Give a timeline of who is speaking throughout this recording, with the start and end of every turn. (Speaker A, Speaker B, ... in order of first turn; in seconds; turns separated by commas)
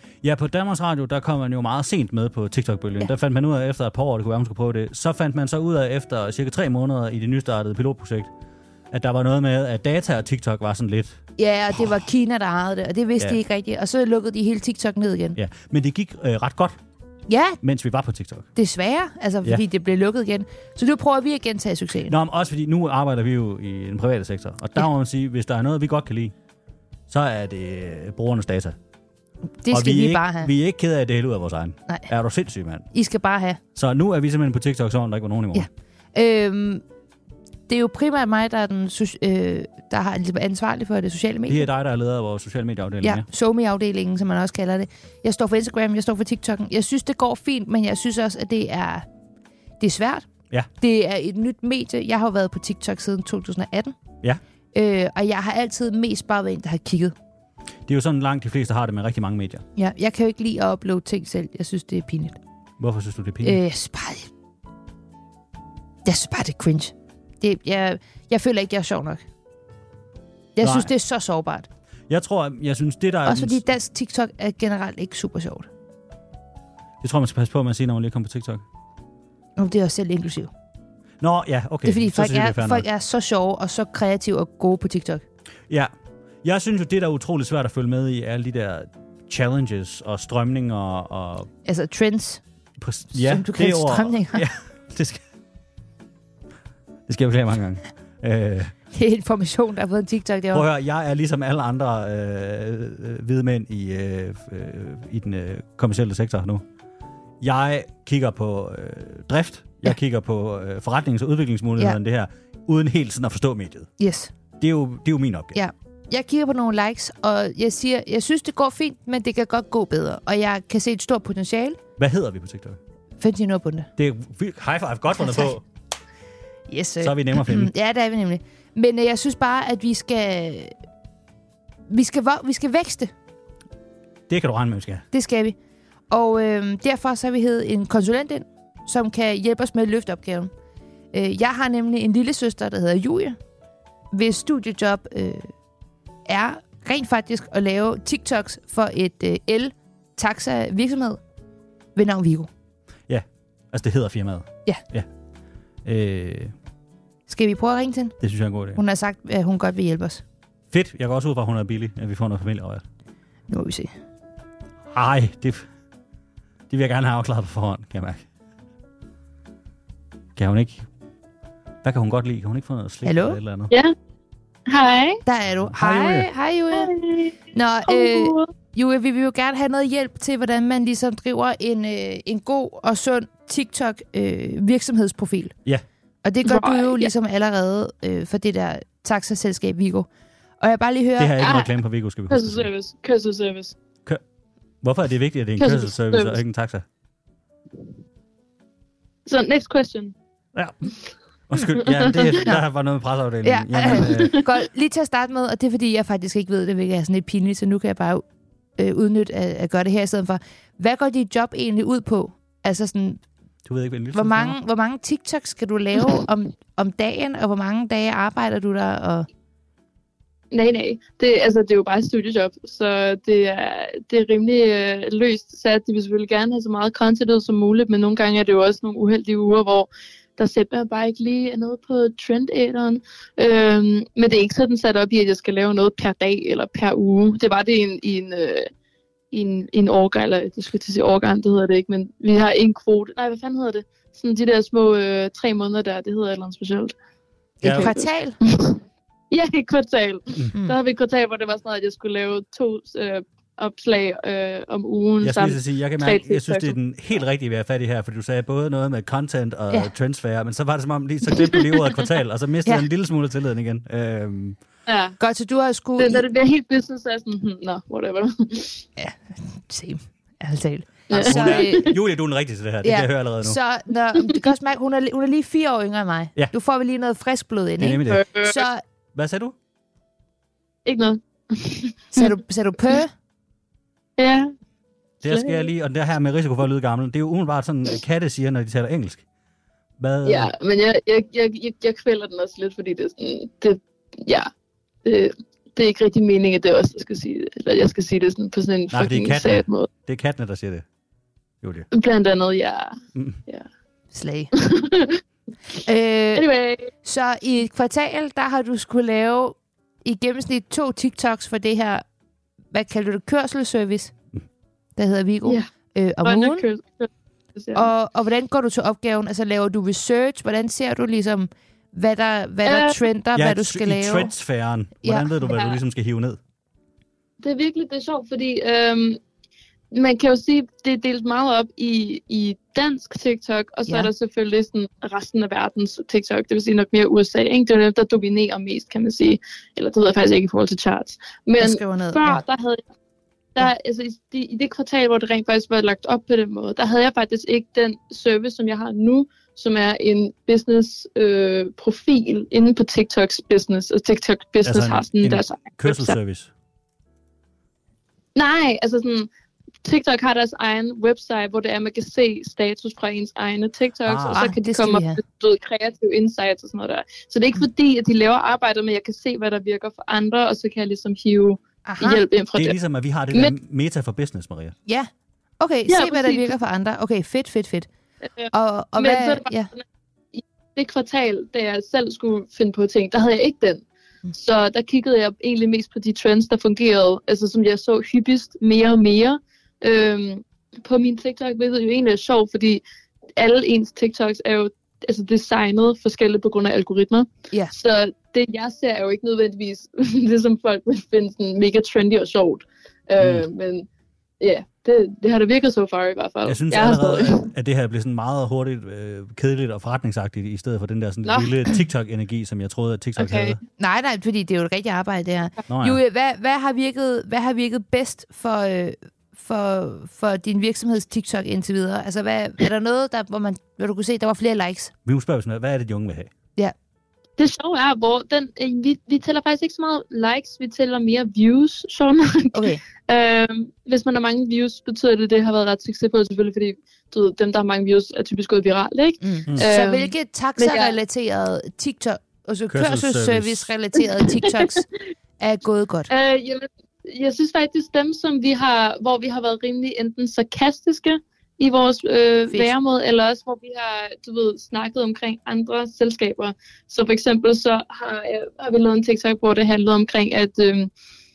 Speaker A: 0.2-8.3, Speaker A: 8.9-11.2, Speaker B: 11.4-15.4, Speaker A: 15.3-16.8, Speaker B: 17.3-17.6, Speaker A: 17.6-18.5, Speaker B: 18.6-22.2, Speaker A: 22.1-26.3, Speaker A: 27.1-28.8, Speaker B: 29.6-30.5, Speaker A: 29.7-32.9, Speaker B: 32.9-33.6, Speaker A: 33.8-35.7, Speaker B: 35.5-36.8, Speaker B: 37.7-41.7, Speaker A: 41.5-43.2, Speaker B: 43.0-49.1, Speaker B: 49.8-50.3, Speaker B: 50.8-54.0, Speaker B: 54.7-57.1, Speaker A: 57.9-59.6, Speaker B: 59.8-62.4, Speaker A: 62.8-63.6, Speaker B: 63.4-64.3, Speaker B: 66.0-69.2, Speaker B: 70.6-71.7, Speaker A: 70.6-70.9, Speaker A: 72.1-73.6, Speaker B: 73.2-75.7, Speaker A: 77.0-78.6, Speaker B: 79.6-80.5, Speaker A: 81.2-82.9, Speaker B: 81.8-85.2, Speaker A: 86.4-91.5, Speaker B: 91.7-92.4, Speaker A: 92.8-95.2, Speaker B: 93.1-94.5, Speaker A: 97.1-98.7, Speaker B: 98.9-100.7, Speaker A: 100.5-106.6, Speaker A: 107.4-113.9, Speaker B: 114.0-114.3, Speaker A: 114.6-115.6, Speaker B: 115.5-121.8, Speaker A: 122.0-122.8, Speaker B: 123.2-123.9, Speaker A: 124.0-125.6, Speaker B: 125.2-125.5, Speaker B: 126.7-130.8, Speaker A: 127.0-127.7, Speaker B: 131.9-133.1, Speaker A: 134.3-135.1, Speaker B: 135.1-135.6, Speaker B: 136.1-140.5, Speaker B: 141.1-143.4, Speaker B: 144.1-145.5, Speaker B: 146.3-151.2, Speaker B: 152.0-152.5, Speaker A: 153.1-155.1, Speaker A: 155.8-156.6, Speaker B: 157.3-158.2, Speaker A: 158.2-158.8, Speaker B: 158.8-160.2, Speaker A: 160.7-162.8, Speaker B: 163.5-163.9, Speaker A: 164.9-165.7, Speaker A: 166.7-168.3, Speaker A: 170.4-170.9, Speaker A: 171.8-173.7, Speaker B: 173.1-173.4, Speaker C: 174.7-175.2, Speaker B: 175.3-176.9, Speaker A: 175.6-176.3, Speaker C: 176.7-178.5, Speaker B: 177.5-185.6, Speaker B: 186.2-190.1, Speaker C: 186.4-187.1, Speaker B: 190.6-191.6, Speaker A: 191.2-192.7, Speaker C: 191.4-191.7, Speaker C: 192.3-193.8, Speaker A: 194.8-196.8, Speaker C: 195.6-196.4, Speaker C: 199.3-200.1, Speaker A: 200.6-200.9, Speaker A: 201.5-204.4, Speaker C: 201.8-202.5, Speaker B: 203.4-208.2, Speaker C: 204.0-204.4, Speaker B: 208.8-213.2, Speaker A: 213.7-214.6, Speaker B: 214.1-219.3, Speaker C: 220.5-238.7, Speaker C: 239.3-246.9, Speaker A: 247.6-247.9, Speaker B: 247.6-248.4, Speaker C: 247.6-256.8, Speaker A: 255.2-264.6, Speaker C: 261.3-262.0, Speaker C: 264.9-265.2, Speaker B: 265.2-266.2, Speaker C: 266.0-268.9, Speaker B: 269.0-271.9, Speaker C: 271.1-272.0, Speaker A: 271.2-273.6, Speaker B: 272.8-278.8, Speaker A: 277.8-278.3, Speaker C: 278.0-278.6, Speaker A: 279.1-279.6, Speaker C: 280.9-282.3, Speaker B: 282.1-283.1, Speaker C: 284.2-284.5, Speaker A: 285.2-289.2, Speaker C: 285.2-285.7, Speaker A: 290.0-290.5, Speaker C: 290.2-294.5, Speaker C: 295.1-299.9, Speaker A: 298.9-300.9, Speaker A: 301.6-301.9, Speaker C: 301.9-303.0, Speaker B: 304.1-304.5, Speaker C: 304.5-305.2, Speaker B: 305.8-306.5, Speaker C: 306.4-306.9, Speaker B: 307.0-312.1, Speaker B: 312.7-314.1, Speaker B: 315.0-316.6, Speaker C: 316.2-317.9, Speaker B: 317.8-324.3, Speaker C: 322.7-323.0, Speaker A: 323.4-326.4, Speaker B: 325.0-325.6, Speaker C: 325.5-325.8, Speaker C: 327.4-329.2, Speaker C: 329.9-342.8, Speaker B: 341.6-342.4, Speaker C: 343.6-356.2, Speaker A: 354.6-356.5, Speaker C: 358.4-359.3, Speaker C: 359.8-372.8, Speaker A: 364.1-364.4, Speaker B: 364.4-365.2, Speaker B: 371.9-372.2, Speaker A: 372.6-374.8, Speaker B: 375.6-377.9, Speaker C: 375.9-376.5, Speaker C: 378.2-379.8, Speaker B: 378.5-379.7, Speaker C: 380.3-392.8, Speaker C: 393.4-403.9, Speaker A: 403.2-403.5, Speaker C: 404.4-407.5, Speaker A: 406.4-413.6, Speaker C: 411.2-411.5, Speaker C: 413.2-413.6, Speaker B: 413.8-424.9, Speaker A: 415.7-416.0, Speaker A: 425.1-426.3, Speaker C: 427.4-441.0, Speaker B: 432.5-432.8, Speaker B: 439.2-444.9, Speaker A: 442.7-443.7, Speaker C: 444.3-444.9, Speaker B: 445.4-446.1, Speaker C: 446.1-460.9